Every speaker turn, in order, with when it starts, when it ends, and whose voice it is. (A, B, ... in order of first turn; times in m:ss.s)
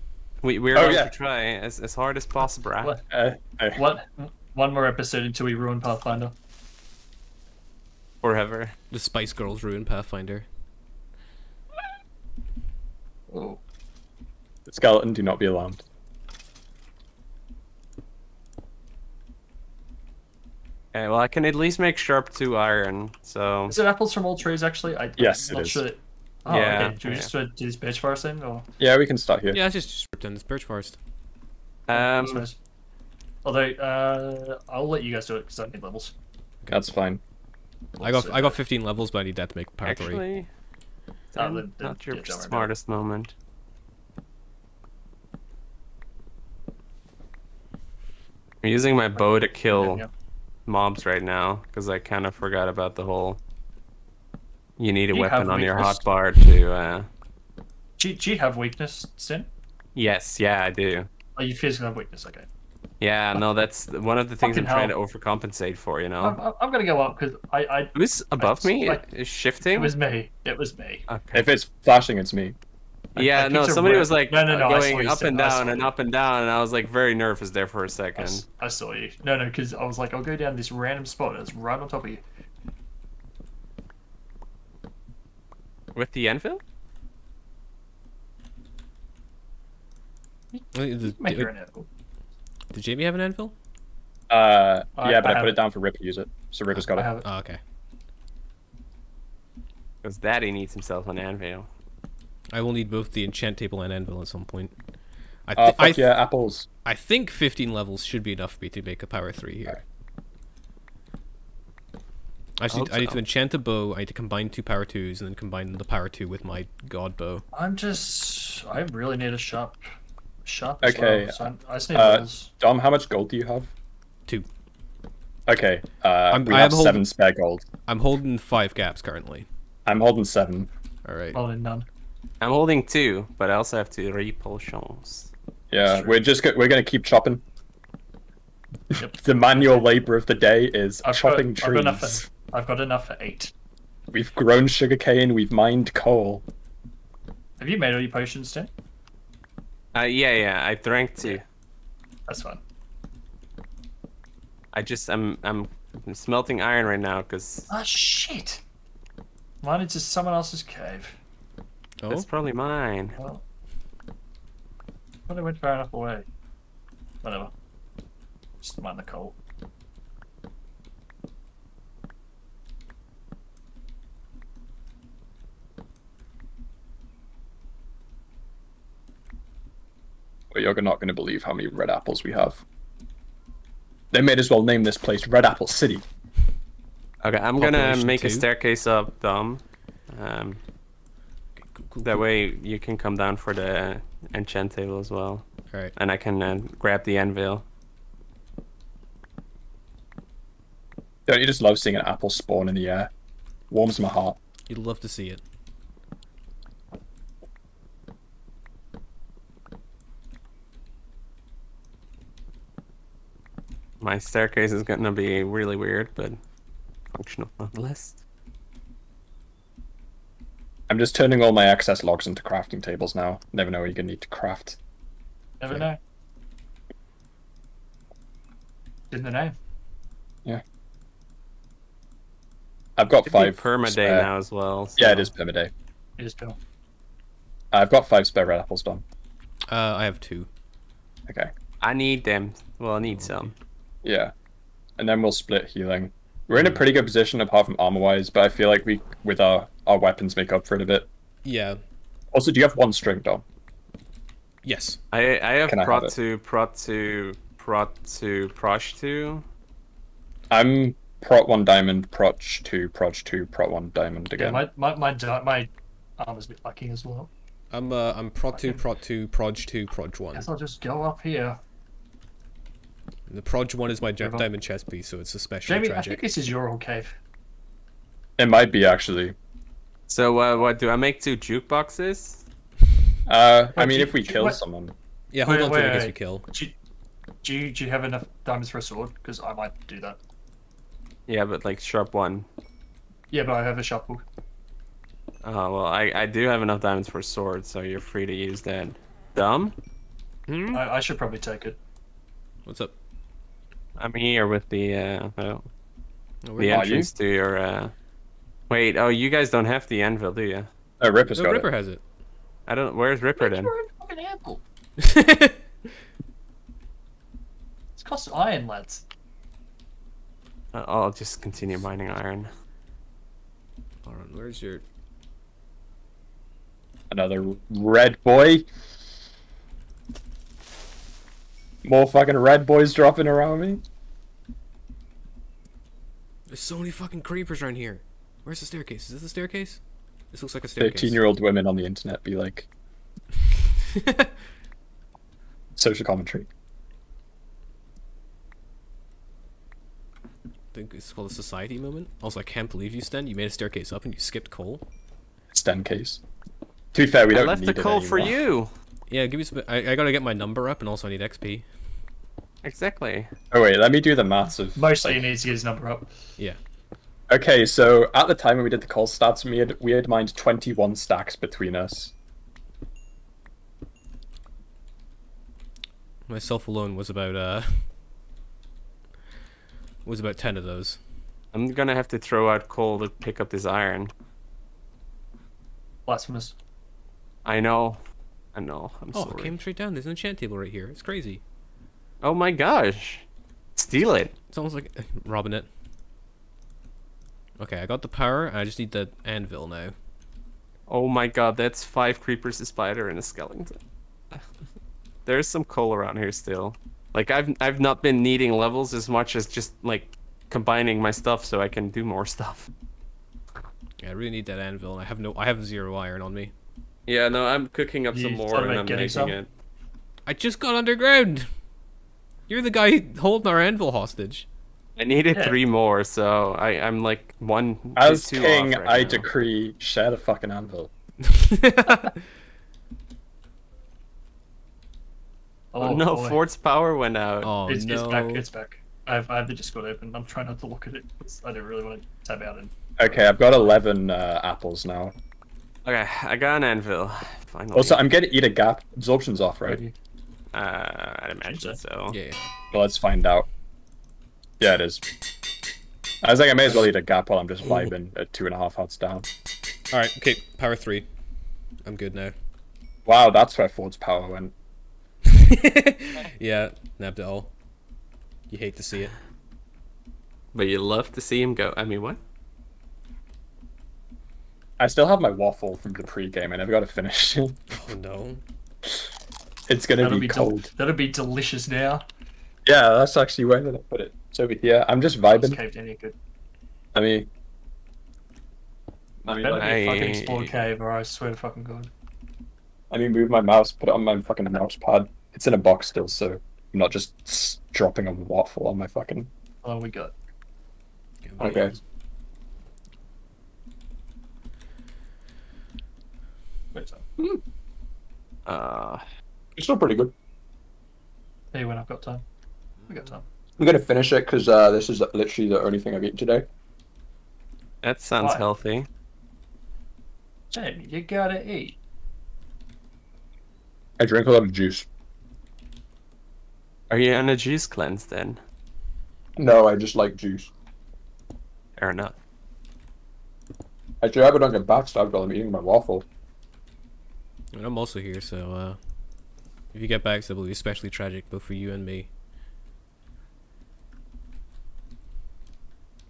0:00.4-0:02.9 A
0:00.7-0:01.1 B
0:02.4-0:03.0 C
0:03.1-0:03.8 B
0:03.8-0:06.3 C
0:08.2-0:08.8 A
0:08.9-0:10.5 D
0:13.3-0:13.6 C
0:14.7-0:15.8 B
0:20.9-0:23.8 A
0:23.7-0:28.7 C
0:25.2-0:25.8 B
0:26.5-0:27.3 A
0:28.8-0:29.6 B
0:29.5-0:31.0 D
0:31.9-0:32.4 A
0:31.9-0:32.6 C
0:33.4-0:36.1 C
0:36.7-0:37.2 B
0:38.0-0:38.6 C
0:38.0-0:40.2 D
0:39.8-0:40.5 A
0:41.3-0:43.3 A
0:41.4-0:42.7 C
0:48.6-0:50.0 A
0:49.2-0:50.1 C
0:50.7-0:53.4 A
0:54.8-0:57.1 A
0:55.1-0:56.0 C
0:58.0-0:59.5 C
1:00.0-1:01.1 A
1:01.4-1:02.5 C
1:03.0-1:06.4 A
1:04.4-1:05.0 C
1:06.2-1:09.0 C
1:07.9-1:09.9 A
1:09.7-1:11.0 C
1:11.1-1:11.5 A
1:11.3-1:12.6 B
1:13.2-1:15.9 C
1:13.2-1:18.4 A
1:18.2-1:22.2 C
1:26.0-1:26.6 A
1:30.5-1:31.9 C
1:30.7-1:31.5 D
1:32.7-1:33.5 D
1:34.3-1:37.1 B
1:35.0-1:35.6 C
1:36.7-1:37.6 D
1:36.9-1:37.3 C
1:40.0-1:41.7 A
1:42.5-1:44.7 D
1:45.4-1:46.2 D
1:45.6-1:46.7 B
1:46.8-1:49.8 D
1:52.6-1:57.4 D
1:52.7-1:53.2 A
1:57.5-1:59.8 C
2:00.4-2:02.5 C
2:00.8-2:01.4 B
2:01.9-2:03.7 B
2:05.5-2:07.7 B
2:06.3-2:07.0 D
2:07.9-2:09.5 D
2:09.9-2:10.7 B
2:11.0-2:11.4 D
2:11.3-2:11.9 C
2:12.4-2:15.3 A
2:15.7-2:17.4 B
2:15.9-2:16.2 C
2:18.9-2:22.3 B
2:19.0-2:19.9 C
2:21.0-2:23.5 C
2:24.1-2:26.4 B
2:27.6-2:28.7 C
2:30.0-2:31.4 A
2:32.3-2:32.6 C
2:34.7-2:37.7 A
2:37.7-2:38.6 C
2:39.6-2:41.2 C
2:42.0-2:42.3 D
2:42.1-2:43.2 A
2:43.2-2:43.4 C
2:45.3-2:46.2 C
2:47.2-2:47.5 C
2:48.6-2:49.4 C
3:00.5-3:02.6 B
3:04.1-3:06.0 B
3:07.2-3:10.6 A
3:07.6-3:08.5 D
3:11.6-3:12.2 D
3:12.0-3:17.6 A
3:21.3-3:23.1 B
3:23.7-3:24.4 B
3:24.7-3:25.4 D
3:34.0-3:36.4 A
3:37.1-3:38.2 A
3:40.9-3:44.8 B
3:45.6-3:46.0 C
3:49.1-3:49.6 C
3:53.0-3:54.3 B
3:53.2-3:55.3 A
3:55.0-3:55.7 B
3:56.2-3:56.6 C
3:57.7-3:59.0 B
3:59.7-4:00.5 D
4:01.8-4:03.5 A
4:03.0-4:03.5 D
4:04.0-4:04.3 B
4:05.0-4:11.1 B
4:06.5-4:06.8 D
4:11.4-4:11.8 D
4:12.3-4:13.4 B
4:14.6-4:15.0 D
4:15.1-4:19.4 A
4:15.7-4:16.2 B
4:20.5-4:24.6 B
4:24.4-4:27.3 C
4:27.7-4:30.5 D
4:28.5-4:28.8 C
4:30.3-4:31.6 C
4:33.3-4:36.2 D
4:34.2-4:34.5 C
4:35.7-4:37.2 C
4:38.4-4:39.4 B
4:40.1-4:42.4 A
4:43.3-4:44.9 B
4:43.7-4:44.6 C
4:45.3-4:46.5 D
4:45.4-4:46.8 C
4:47.4-4:50.2 C
4:51.3-4:52.5 A
4:53.3-4:54.2 C
4:55.4-4:59.8 A
5:00.5-5:00.8 D
5:00.7-5:01.8 C
5:02.7-5:02.9 D
5:04.0-5:05.7 A
5:06.4-5:07.0 D
5:06.6-5:07.9 A
5:06.6-5:07.1 B
5:08.7-5:10.7 A
5:11.0-5:11.7 B
5:11.3-5:12.0 D
5:12.7-5:13.7 A
5:13.4-5:14.6 C
5:15.0-5:15.6 D
5:18.0-5:19.0 C
5:20.7-5:22.5 A
5:24.0-5:24.8 D
5:27.1-5:28.7 B
5:31.8-5:33.8 B
5:36.5-5:41.2 D
5:40.8-5:42.7 B
5:45.8-5:46.5 B
5:50.7-5:54.8 D
5:55.5-5:56.2 B
5:56.9-5:58.4 B
5:57.3-5:58.7 A
5:59.1-6:01.7 D
6:02.6-6:03.3 A
6:03.5-6:05.2 B
6:04.8-6:06.1 C
6:07.3-6:12.1 B
6:16.3-6:17.9 D
6:20.0-6:21.0 D
6:21.5-6:24.1 A
6:26.1-6:26.5 C
6:27.4-6:28.0 A
6:28.5-6:29.6 A
6:29.1-6:31.4 D
6:32.2-6:34.3 A
6:34.5-6:35.7 D
6:37.6-6:39.9 D
6:40.9-6:43.8 A
6:45.2-6:52.7 A
6:54.0-6:56.5 D
6:57.1-6:59.5 A
6:58.1-6:59.4 C
7:00.3-7:01.5 D
7:02.5-7:04.5 D
7:05.0-7:09.3 A
7:05.3-7:05.6 C
7:08.0-7:10.9 B
7:11.3-7:12.1 D
7:15.7-7:16.4 C
7:15.8-7:17.5 A
7:17.4-7:18.4 D
7:17.6-7:23.7 C
7:23.0-7:25.2 B
7:25.8-7:28.0 A
7:27.7-7:29.8 B
7:29.6-7:30.0 C
7:30.5-7:32.2 A
7:31.4-7:31.8 C
7:32.1-7:32.4 D
7:32.7-7:33.5 B
7:34.6-7:35.0 B
7:36.2-7:39.3 B
7:37.6-7:37.9 D
7:39.9-7:41.1 D
7:41.8-7:42.3 D
7:43.1-7:44.5 B
7:45.3-7:47.5 D
7:48.5-7:49.2 D
7:50.5-7:52.2 A
7:54.8-7:57.6 B
7:57.7-7:58.4 D
7:59.7-8:00.7 B
8:00.0-8:02.1 C
8:02.7-8:05.6 B
8:05.3-8:06.2 C
8:06.9-8:07.3 B
8:09.2-8:09.7 B
8:09.3-8:11.9 C
8:09.5-8:10.6 A
8:12.9-8:19.3 B
8:19.6-8:20.1 C
8:21.2-8:21.7 D
8:21.4-8:21.7 B
8:21.4-8:21.7 C
8:26.7-8:27.0 C
8:28.5-8:29.0 A
8:29.6-8:30.1 B
8:31.5-8:32.2 C
8:32.9-8:33.2 C
8:33.6-8:36.5 B
8:37.8-8:38.9 A
8:40.5-8:41.8 C
8:44.0-8:44.9 B
8:46.9-8:48.4 A
8:49.4-8:50.5 B
8:51.8-8:52.2 A
8:54.0-8:56.1 B
8:57.5-8:58.9 D
8:59.7-9:02.1 D